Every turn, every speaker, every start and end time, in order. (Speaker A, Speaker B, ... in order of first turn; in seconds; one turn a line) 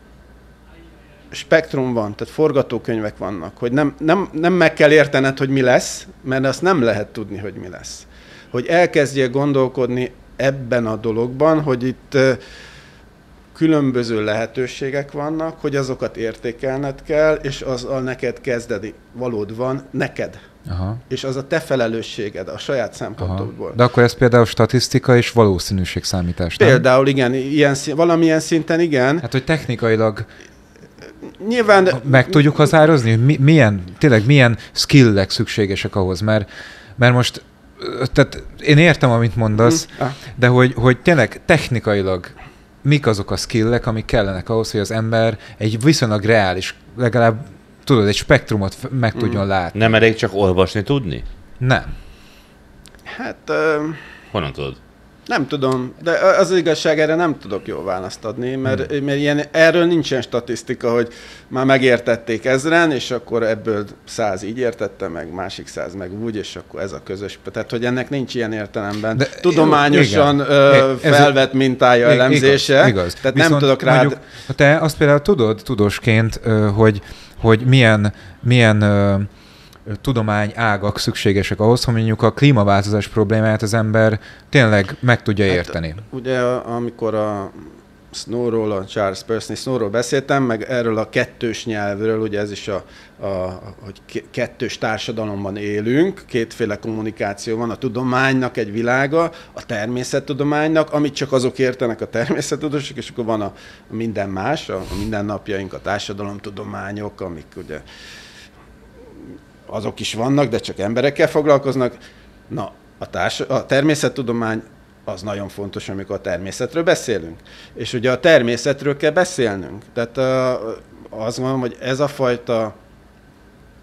Speaker A: 1.3-12.4
Speaker A: 13.5-20.4
Speaker B: 20.7-21.0
Speaker A: 21.1-23.8
Speaker B: 23.2-26.8
Speaker A: 26.6-29.2
Speaker B: 29.2-30.3
Speaker A: 31.3-32.7
Speaker B: 31.9-36.5
Speaker B: 37.0-50.0
Speaker A: 39.7-40.2
Speaker C: 49.8-51.2
Speaker B: 51.6-51.9
Speaker A: 53.1-54.0
Speaker C: 54.3-54.8
Speaker A: 55.3-74.2
Speaker B: 69.2-71.3
Speaker B: 72.0-79.3
Speaker B: 79.9-86.0
Speaker A: 85.5-107.8
Speaker A: 109.7-112.0
Speaker A: 112.5-122.8